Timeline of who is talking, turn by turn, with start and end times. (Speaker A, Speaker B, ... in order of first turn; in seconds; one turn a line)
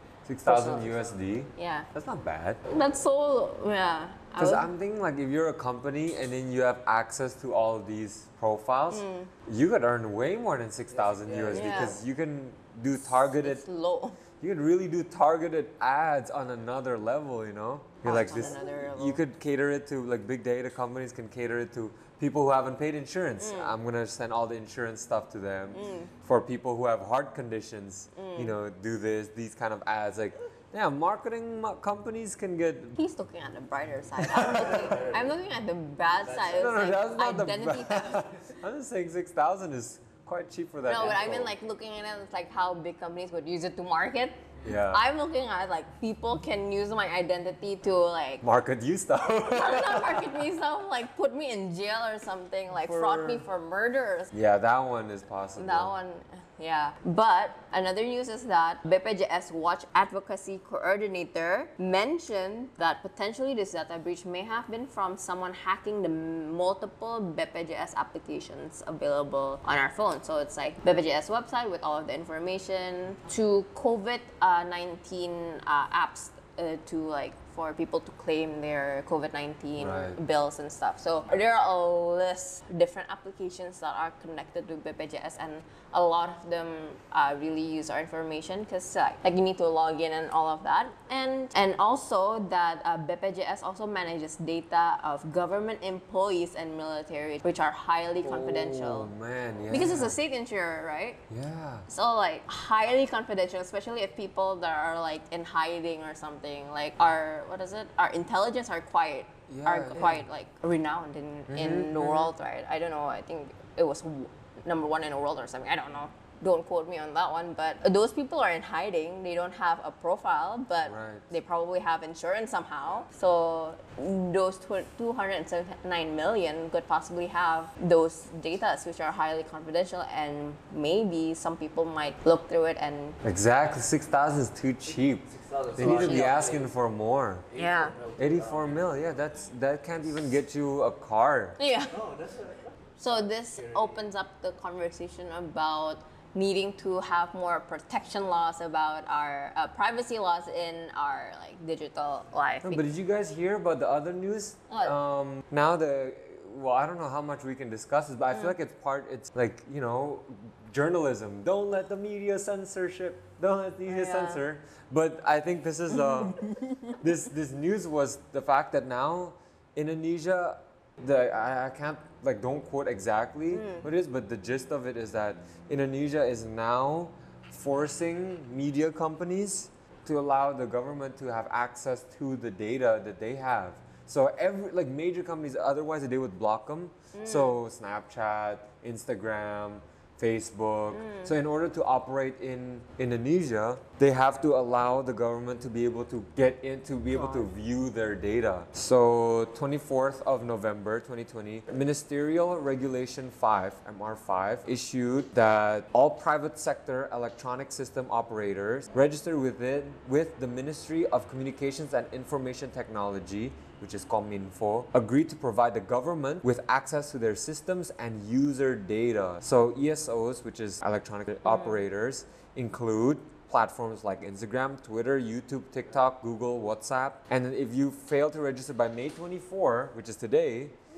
Speaker A: 0.2-2.6
Speaker B: 0.4-1.0
Speaker B: 1.6-1.9
Speaker B: 2.7-4.7
Speaker A: 4.4-13.6
Speaker B: 8.9-9.3
Speaker C: 11.0-12.0
Speaker B: 11.5-12.0
Speaker B: 13.4-14.2
Speaker A: 14.4-33.0
Speaker B: 18.0-19.2
Speaker B: 23.4-23.8
Speaker B: 25.7-26.1
Speaker B: 28.1-28.6
Speaker B: 33.0-38.3
Speaker A: 34.2-34.9
Speaker C: 34.8-35.3
Speaker C: 36.3-36.7
Speaker A: 36.5-41.5
Speaker B: 40.9-48.4
Speaker A: 44.6-45.0
Speaker A: 48.4-50.4
Speaker B: 49.5-54.3
Speaker A: 52.8-53.4
Speaker A: 54.3-55.9
Speaker B: 55.6-99.1
Speaker A: 79.8-80.2
Speaker A: 98.2-100.2
Speaker B: 99.7-101.2
Speaker A: 101.3-101.9
Speaker B: 101.9-133.2
Speaker A: 109.5-110.2
Speaker A: 111.5-112.3
Speaker A: 120.8-121.3
Speaker A: 133.2-137.5
Speaker C: 135.3-136.7
Speaker B: 135.8-136.4
Speaker C: 137.5-139.1
Speaker B: 137.6-137.9
Speaker A: 138.2-141.6
Speaker B: 141.6-142.0
Speaker C: 141.9-144.0
Speaker B: 143.0-152.8
Speaker A: 152.6-230.8
Speaker B: 163.9-164.4
Speaker B: 166.2-167.0
Speaker B: 173.5-173.9
Speaker B: 187.1-187.6
Speaker B: 190.9-191.3
Speaker B: 197.1-197.5
Speaker B: 221.4-221.8